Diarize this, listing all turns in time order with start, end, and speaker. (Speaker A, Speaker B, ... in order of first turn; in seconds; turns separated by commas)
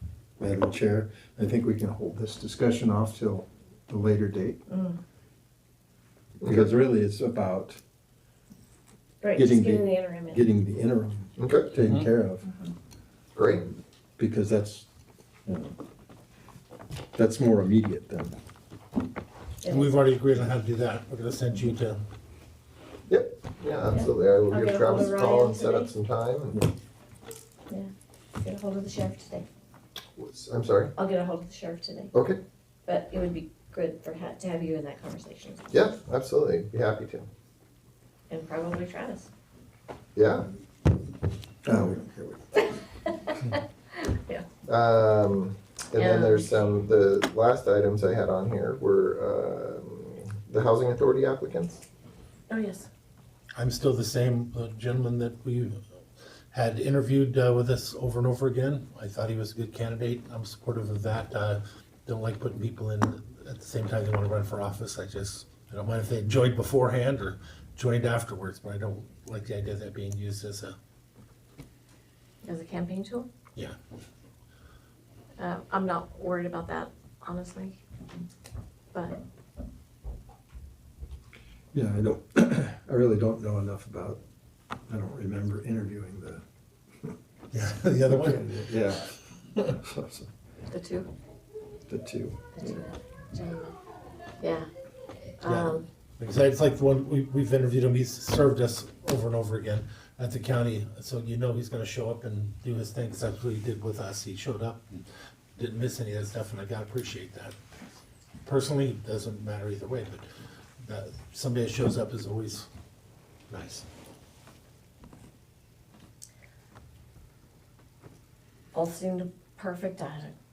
Speaker A: 0.4-4.6, Speaker B: 4.7-5.0, Speaker C: 6.4-6.7, Speaker A: 6.4-7.8, Speaker B: 9.2-10.4, Speaker A: 9.4-12.4, Speaker C: 11.4-11.7, Speaker D: 11.8-12.1, Speaker B: 12.4-12.7, Speaker C: 13.3-13.7, Speaker A: 14.2-14.9, Speaker A: 17.1-18.4, Speaker B: 19.6-20.0, Speaker D: 19.6-22.0, Speaker C: 23.1-26.6, Speaker B: 23.9-25.9, Speaker B: 27.7-29.5, Speaker C: 30.1-30.9, Speaker B: 30.9-32.1, Speaker C: 32.1-32.4, Speaker B: 32.8-35.7, Speaker C: 35.7-37.3, Speaker B: 38.3-39.3, Speaker C: 40.1-40.5, Speaker A: 41.6-42.6, Speaker B: 43.0-44.4, Speaker C: 44.6-51.8, Speaker B: 46.0-46.5, Speaker B: 52.5-52.9, Speaker D: 53.5-55.8, Speaker D: 56.5-70.7, Speaker B: 72.4-73.3, Speaker B: 75.4-77.8, Speaker B: 78.9-79.2, Speaker A: 81.7-84.2, Speaker A: 84.9-86.4, Speaker D: 87.5-88.6, Speaker A: 88.1-90.3, Speaker B: 90.7-91.1, Speaker A: 91.9-92.8, Speaker B: 92.5-93.7, Speaker B: 94.4-94.7, Speaker B: 95.4-95.8, Speaker D: 95.4-105.0, Speaker D: 105.5-107.5, Speaker D: 108.4-110.2, Speaker D: 110.8-112.7, Speaker D: 113.5-113.8, Speaker B: 118.7-120.3